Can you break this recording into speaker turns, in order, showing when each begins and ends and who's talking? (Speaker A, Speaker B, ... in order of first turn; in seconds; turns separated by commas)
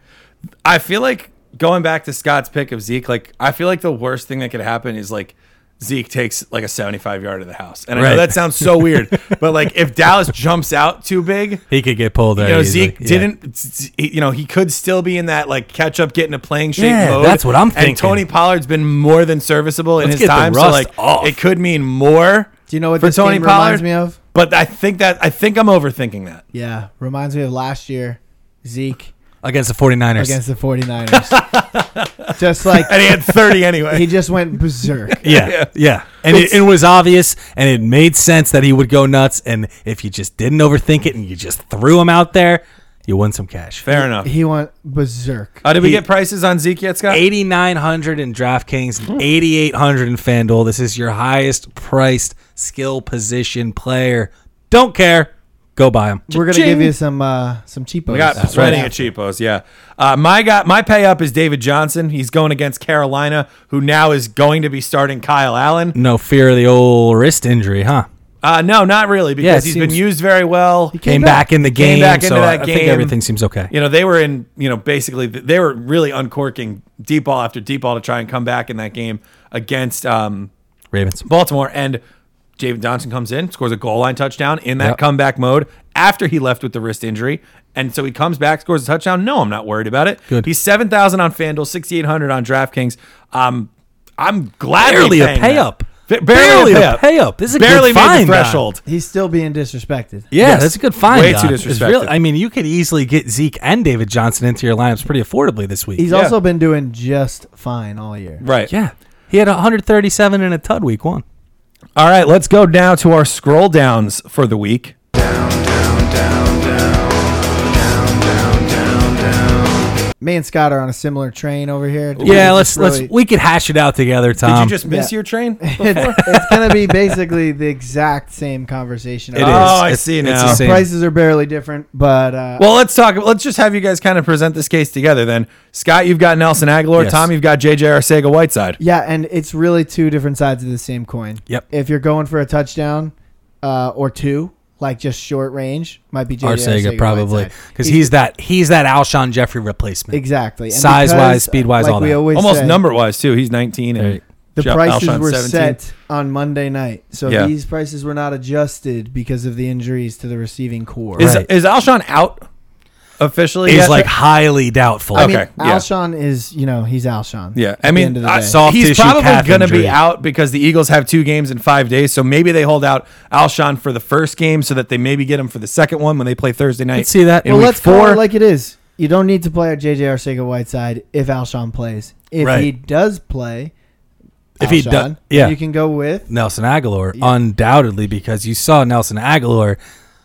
Speaker A: 0.6-11.6, Speaker B: 8.0-9.3, Speaker B: 11.7-13.3, Speaker A: 12.4-26.4, Speaker B: 16.8-18.2, Speaker B: 20.0-21.4, Speaker C: 22.7-24.2, Speaker C: 26.5-29.1, Speaker B: 29.4-30.4, Speaker C: 30.2-31.5, Speaker A: 31.2-34.1, Speaker C: 32.4-35.2, Speaker A: 35.1-35.7, Speaker B: 35.2-43.9, Speaker A: 43.9-44.3, Speaker C: 43.9-45.6, Speaker A: 45.6-47.2, Speaker B: 47.1-56.4, Speaker C: 56.3-59.1, Speaker A: 56.4-56.9, Speaker A: 58.1-66.0, Speaker B: 58.4-58.9, Speaker B: 65.9-68.1, Speaker A: 68.4-71.0, Speaker B: 69.4-70.0, Speaker C: 70.9-71.5, Speaker B: 71.0-73.7, Speaker A: 71.6-73.1, Speaker A: 73.7-80.5, Speaker B: 80.9-81.2, Speaker A: 81.2-82.0, Speaker A: 82.6-98.8, Speaker B: 94.8-98.6, Speaker C: 98.9-100.3, Speaker B: 100.3-106.1, Speaker A: 100.4-102.1, Speaker C: 106.0-108.4, Speaker A: 106.1-106.3, Speaker A: 108.4-108.7, Speaker B: 108.7-111.2, Speaker A: 112.0-119.9, Speaker C: 120.2-123.1, Speaker A: 122.2-122.5, Speaker B: 122.2-124.8, Speaker A: 124.4-126.5, Speaker C: 124.8-132.7, Speaker B: 129.4-130.9, Speaker A: 129.4-130.6, Speaker A: 132.6-138.8, Speaker B: 136.9-137.3, Speaker C: 138.8-148.1, Speaker B: 146.4-152.2, Speaker C: 150.1-152.8, Speaker A: 152.3-155.8, Speaker C: 154.6-161.3, Speaker A: 157.2-157.5, Speaker A: 161.2-162.4, Speaker B: 161.2-161.5, Speaker A: 163.2-164.1, Speaker B: 163.7-165.3, Speaker C: 163.7-164.1, Speaker A: 165.1-165.8, Speaker C: 165.1-168.6, Speaker A: 167.5-178.2, Speaker B: 168.4-170.0, Speaker B: 176.9-177.6, Speaker C: 177.4-183.7, Speaker B: 182.4-182.7, Speaker C: 184.6-186.3, Speaker B: 184.6-185.6, Speaker B: 186.3-189.8